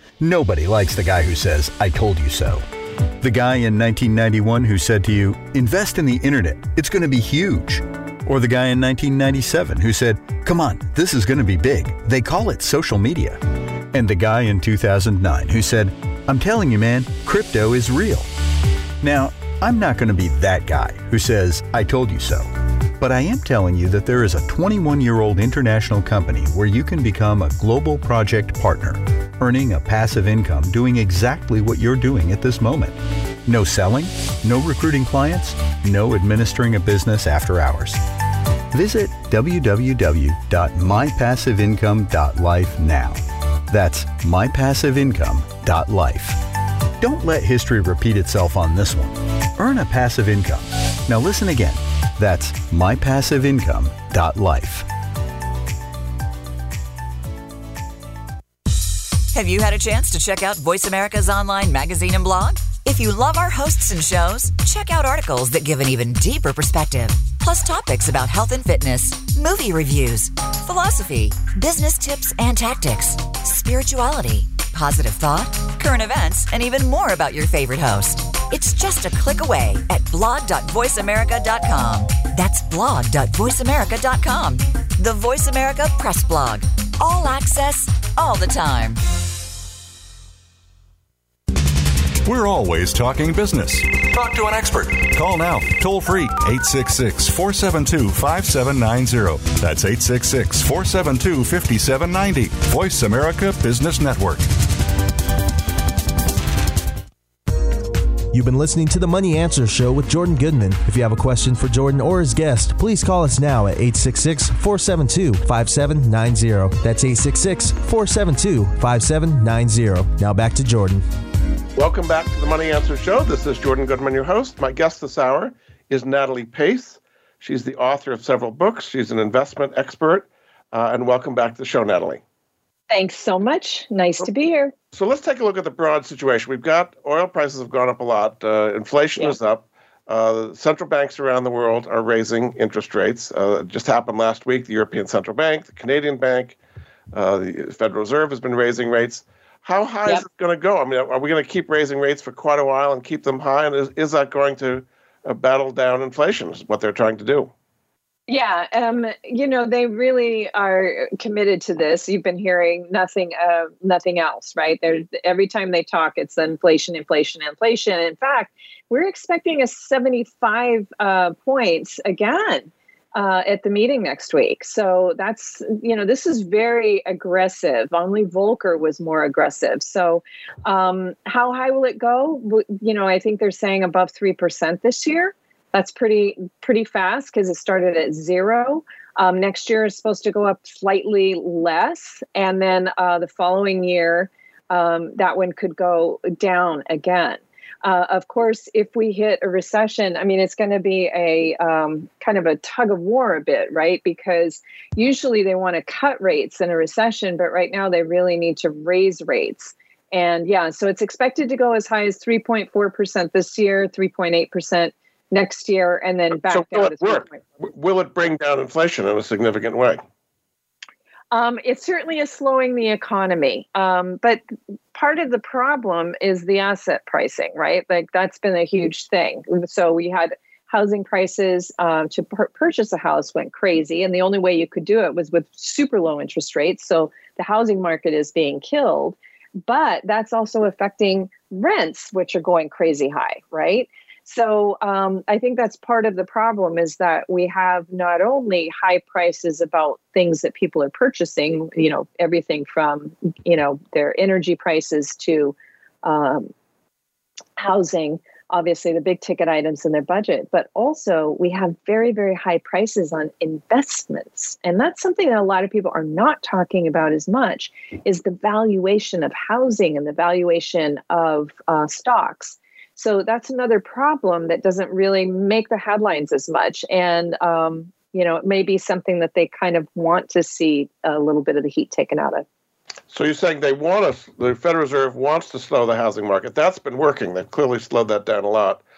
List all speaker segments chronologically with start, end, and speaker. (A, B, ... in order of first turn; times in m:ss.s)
0:00.2-0:02.6 A
0:03.2-0:18.3 A
0:19.0-0:38.0 A
0:38.7-0:46.4 A
0:47.0-0:54.9 A
0:59.3-1:29.0 B
1:32.2-1:44.5 C
1:48.3-2:01.0 D
2:01.8-2:12.2 E
2:12.9-2:14.7 F
2:14.9-2:26.6 E
2:27.1-2:37.5 E
2:38.3-3:37.4 F
3:36.5-3:40.0 E
3:41.3-3:44.4 F
3:44.9-4:16.5 F
4:17.6-4:42.4 F
4:43.1-4:48.8 E